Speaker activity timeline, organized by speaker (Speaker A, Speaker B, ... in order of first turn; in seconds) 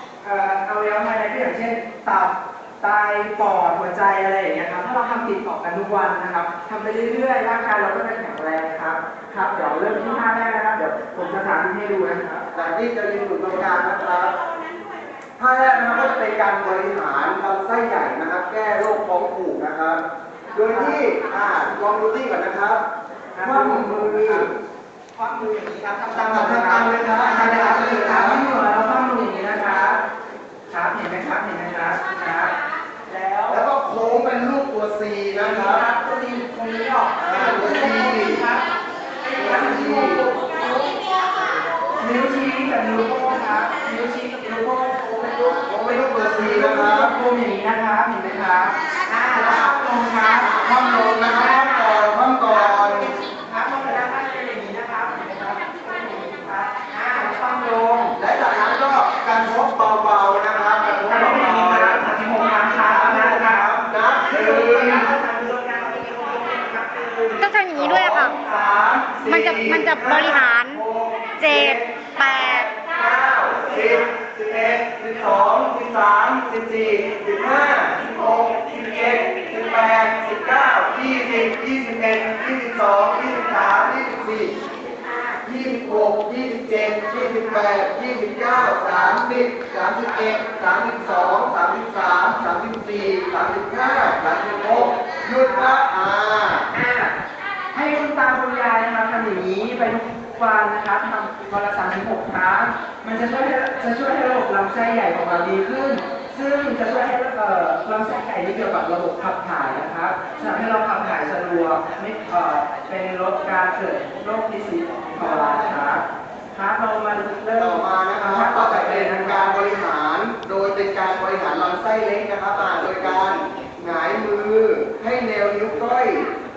Speaker A: 0.2-12.4, 20.6-21.0, 23.4-24.5, 25.1-30.0, 30.7-32.5, 33.1-33.7, 35.4-38.7, 39.2-41.0, 42.0-50.6, 51.2-58.2, 60.8-67.5, 95.5-95.7, 96.7-97.2, 97.7-119.5
Speaker B: 12.5-14.4, 15.4-20.0, 20.5-22.8, 23.4-24.5, 26.1-28.5, 33.5-35.8, 37.2-38.4, 39.4-40.2, 45.6-47.1, 49.4-49.6, 50.4-53.1, 58.2-65.1, 67.7-84.5, 85.4-96.7, 115.2-115.8, 117.6-126.3
Speaker C: 67.4-68.3, 69.3-70.8, 71.4-72.7